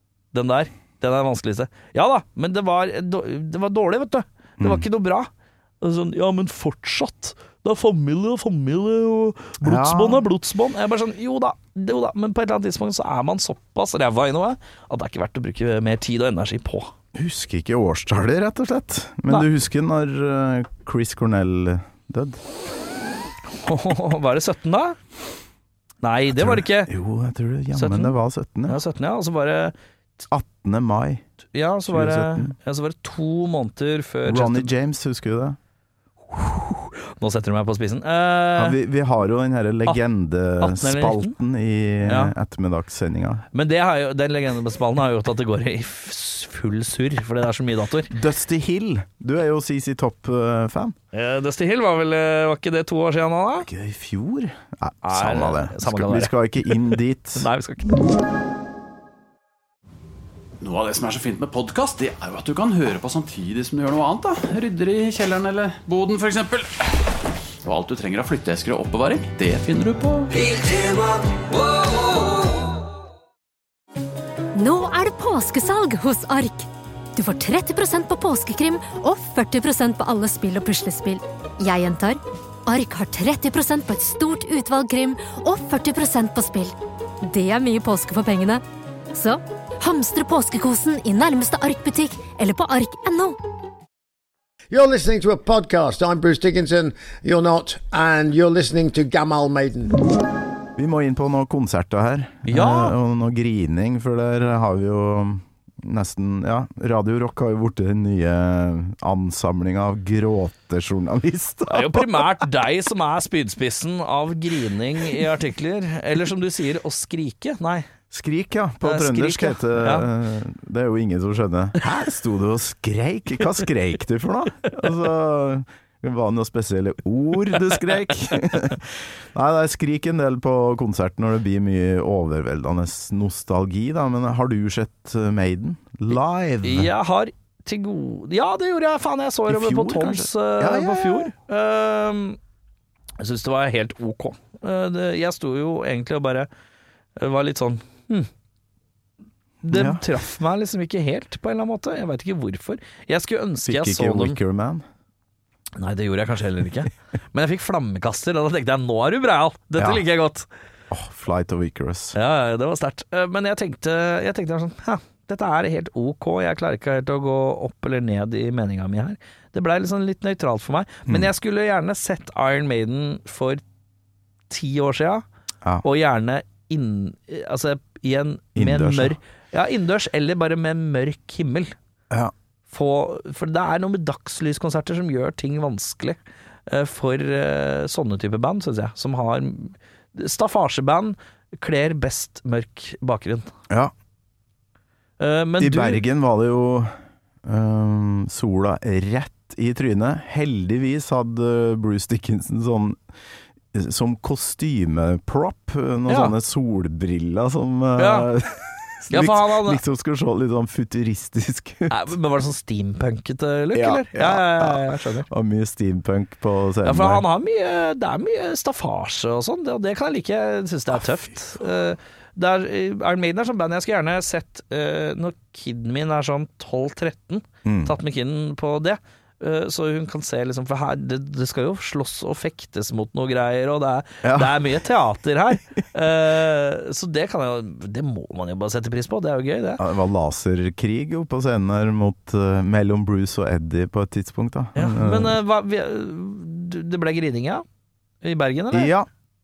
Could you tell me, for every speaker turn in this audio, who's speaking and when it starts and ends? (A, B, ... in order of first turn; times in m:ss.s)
0:00.3-0:05.3 A
0:04.6-0:04.8 B
0:05.8-0:16.9 A
0:09.6-0:10.2 B
0:17.1-0:22.4 B
0:23.6-0:25.0 A
0:26.0-0:26.9 A
0:26.3-0:28.8 B
0:27.7-0:29.7 A
0:30.3-0:31.2 B
0:31.5-0:34.7 A
0:31.9-0:32.6 B
0:34.3-0:35.6 B
0:36.3-0:38.8 A
0:38.6-0:43.4 B
0:40.6-0:41.4 A
0:42.0-0:42.3 A
0:43.5-0:48.1 A
0:48.1-0:51.0 B
0:51.1-0:53.7 A
0:53.6-0:57.5 B
0:55.0-0:58.0 A
1:00.6-1:07.1 C
1:07.6-1:10.3 C
1:10.4-1:12.5 D
1:14.6-1:33.4 E
1:34.7-1:40.0 D
1:40.8-1:52.4 B
1:42.5-1:43.0 A
1:51.7-1:57.9 A
1:58.1-2:16.9 B
1:58.8-2:00.1 A
2:07.7-2:08.3 A
2:16.6-2:22.4 A
2:19.5-2:21.3 B
2:23.2-2:26.5 A
2:27.2-2:28.3 A
2:29.6-2:34.4 A
2:29.7-2:30.0 B
2:33.6-2:34.8 B
2:35.8-2:40.5 A
2:39.8-2:40.0 B
2:40.9-2:42.2 B
2:42.2-2:53.6 A
2:54.5-2:55.2 A
2:55.8-3:01.8 A
2:58.6-2:59.2 B
3:02.7-3:13.5 A
3:15.2-3:16.0 A
3:15.6-3:23.0 B
3:23.7-3:32.1 B
3:26.1-3:26.3 A
3:28.0-3:28.3 A
3:29.1-3:29.8 A
3:31.9-3:35.3 A
3:33.7-3:37.2 B
3:36.8-3:59.8 A
3:47.6-3:48.0 B
3:54.2-3:54.8 B
3:59.8-4:05.4 B
4:04.8-4:07.6 A
4:08.2-4:08.9 A
4:08.7-4:09.1 B